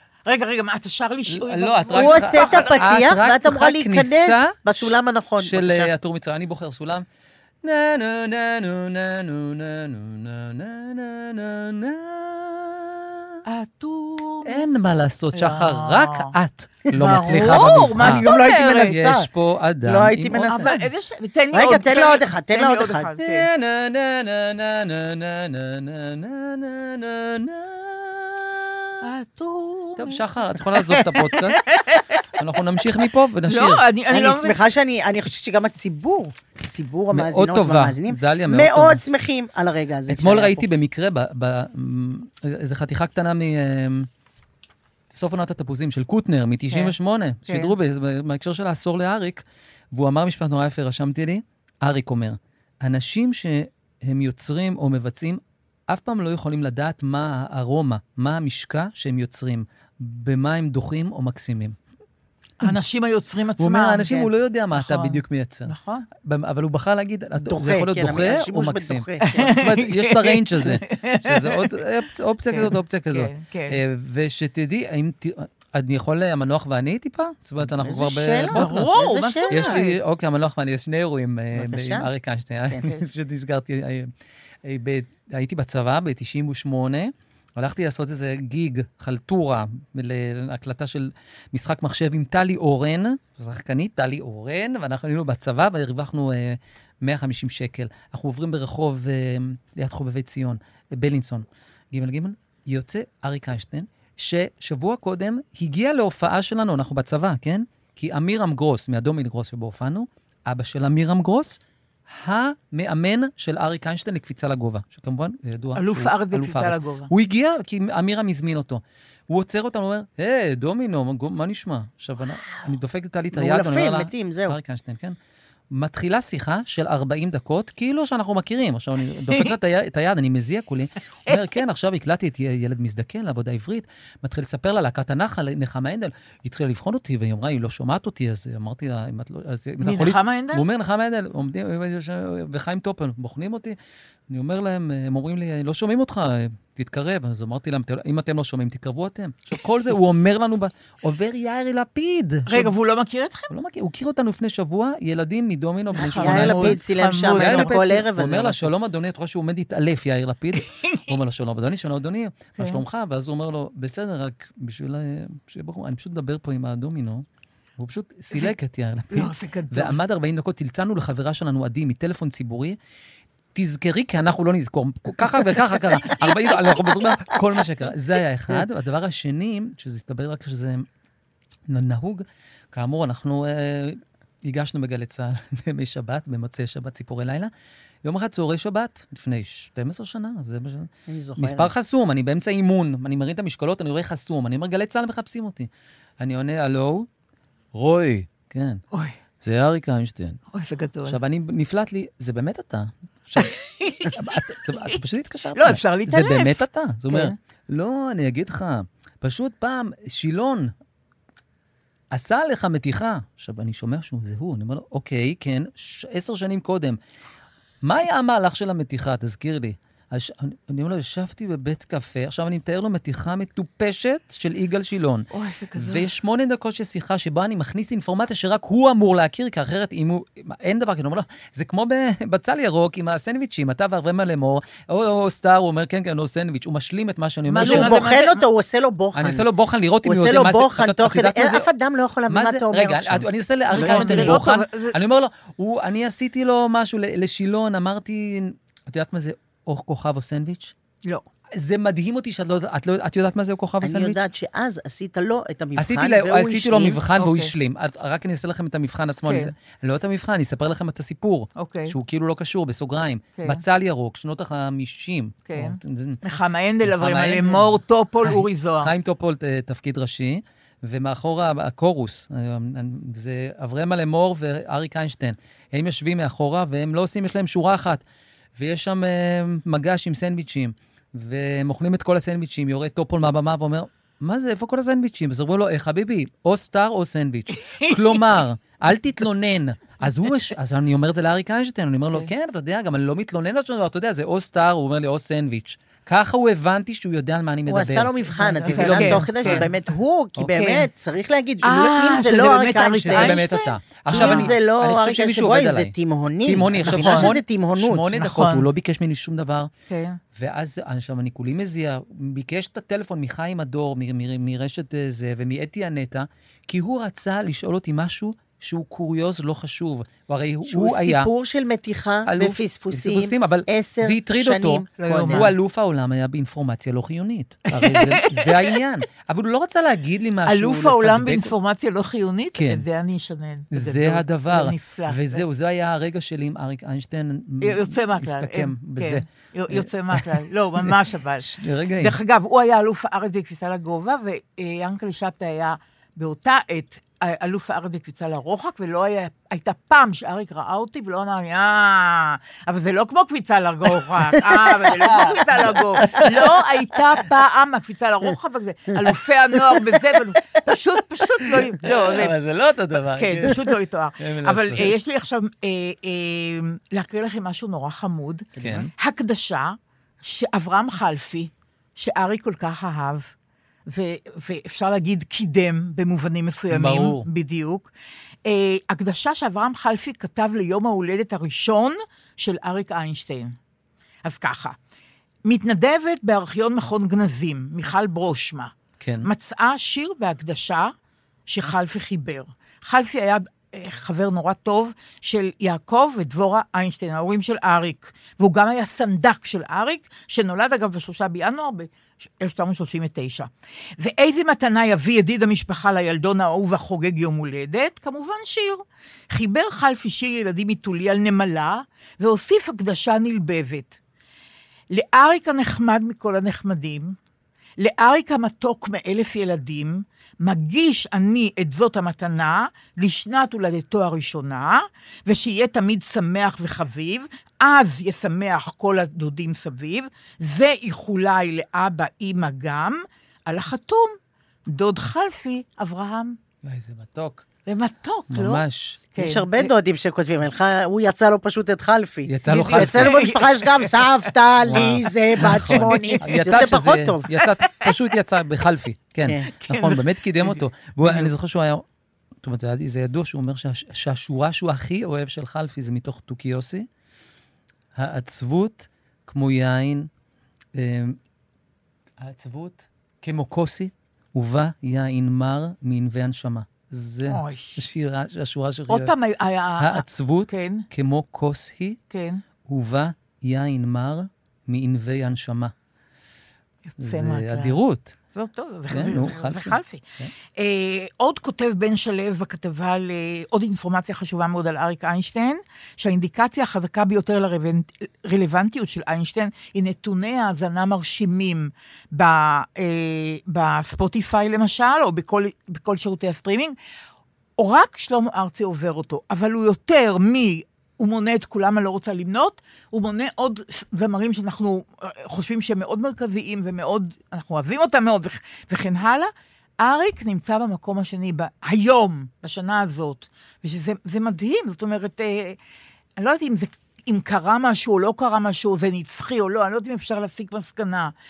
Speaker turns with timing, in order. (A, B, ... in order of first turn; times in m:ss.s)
0:00.2-0:03.2 A
0:01.3-0:07.0 B
0:01.9-0:05.9 C
0:07.6-0:13.3 B
0:13.4-0:14.7 A
0:14.4-0:20.8 B
0:15.3-0:16.3 A
0:16.9-0:18.9 C
0:17.0-0:19.3 A
0:19.8-0:20.7 C
0:20.5-0:23.5 A
0:21.5-0:23.1 C
0:23.2-0:28.9 B
0:29.0-0:32.4 A
0:30.0-0:31.6 B
0:32.4-0:33.8 B
0:33.5-0:34.6 A
0:34.1-0:40.6 C
0:37.1-0:39.0 B
0:40.1-0:44.1 B
0:45.1-0:49.4 B
0:46.7-0:46.9 A
0:47.5-0:47.7 A
0:49.9-1:01.8 B
1:02.6-1:06.0 A
1:03.6-1:19.0 B
1:07.5-1:09.5 C
1:09.2-1:11.8 A
1:12.5-1:13.8 A
1:17.6-1:19.8 C
1:18.5-1:20.0 A
1:19.5-1:24.1 B
1:21.6-1:22.1 C
1:24.6-2:05.2 B
1:55.8-1:57.1 A
2:03.3-2:04.6 C
2:05.7-2:23.8 B
2:19.8-2:20.6 A
2:24.3-2:32.7 B
2:32.5-2:33.5 A
2:33.5-2:47.2 B
2:35.9-2:38.0 A
2:36.0-2:38.7 C
2:40.6-2:41.0 A
2:42.6-2:42.8 A
2:47.8-2:52.8 B
2:49.1-2:50.0 A
2:53.5-3:00.9 B
2:55.8-2:56.2 A
3:01.7-3:07.5 B
3:08.0-3:15.7 B
3:11.1-3:11.7 C
3:16.2-3:17.1 B
3:17.7-3:18.8 B
3:18.9-3:19.2 A
3:19.4-3:20.4 B
3:20.5-3:21.2 A
3:21.1-3:23.5 B
3:23.4-3:25.0 A
3:24.0-3:30.7 B
3:25.5-3:27.4 A
3:32.1-3:37.0 B
3:37.8-3:58.0 B
3:45.3-3:46.1 A
3:57.5-3:58.4 A
3:57.6-3:59.4 C
3:59.1-4:01.7 B
4:00.0-4:04.4 C
4:02.3-4:10.7 B
4:03.7-4:04.9 A
4:11.6-4:14.2 B
4:13.8-4:17.0 C
4:15.8-4:26.2 B
4:17.2-4:17.5 A
4:19.2-4:19.5 A
4:21.6-4:21.9 A
4:23.4-4:23.6 A
4:25.4-4:28.9 A
4:26.8-4:27.7 B
4:28.2-4:38.0 B
4:38.6-4:59.7 B
4:47.5-4:48.2 A
4:57.7-5:03.4 C
4:58.3-4:59.7 A
5:00.5-5:00.9 A
5:01.6-5:04.6 A
5:02.9-5:05.9 B
5:04.1-5:08.1 C
5:06.4-5:09.7 B
5:06.8-5:07.3 A
5:08.1-5:08.7 A
5:09.9-5:10.2 A
5:10.3-5:21.3 B
5:20.7-5:25.5 C
5:22.3-5:31.5 B
5:24.9-5:25.5 A
5:27.7-5:28.8 A
5:30.4-5:35.4 A
5:32.6-5:32.8 B
5:33.7-5:42.2 B
5:37.6-6:02.3 A
5:54.3-5:56.6 B
6:01.4-6:04.9 B
6:03.1-6:13.3 A
6:08.6-6:08.9 B
6:13.9-6:17.9 A
6:16.7-6:17.3 B
6:18.4-6:23.6 A
6:24.2-6:24.8 A
6:25.4-6:30.9 A
6:29.0-6:29.3 B
6:31.5-6:53.9 A
6:54.9-6:57.2 A
6:57.8-7:14.2 A
7:14.7-7:16.4 A
7:16.6-7:17.4 B
7:17.7-7:19.7 A
7:18.3-7:19.0 B
7:19.2-7:27.3 C
7:22.3-7:23.2 B
7:22.5-7:23.6 A
7:24.6-7:31.8 B
7:25.4-7:26.7 A
7:29.5-7:31.3 A
7:32.4-7:36.9 B
7:38.0-7:40.1 B
7:40.8-7:41.2 B
7:42.2-7:49.1 B
7:47.3-7:47.8 A
7:48.9-7:50.9 A
7:49.8-7:52.0 B
7:52.1-7:52.4 A
7:52.6-7:55.7 B
7:56.9-7:57.8 A
7:57.0-7:58.1 B
7:58.3-8:16.8 A
7:58.9-8:00.3 B
8:17.6-8:35.6 A
8:36.2-8:41.1 A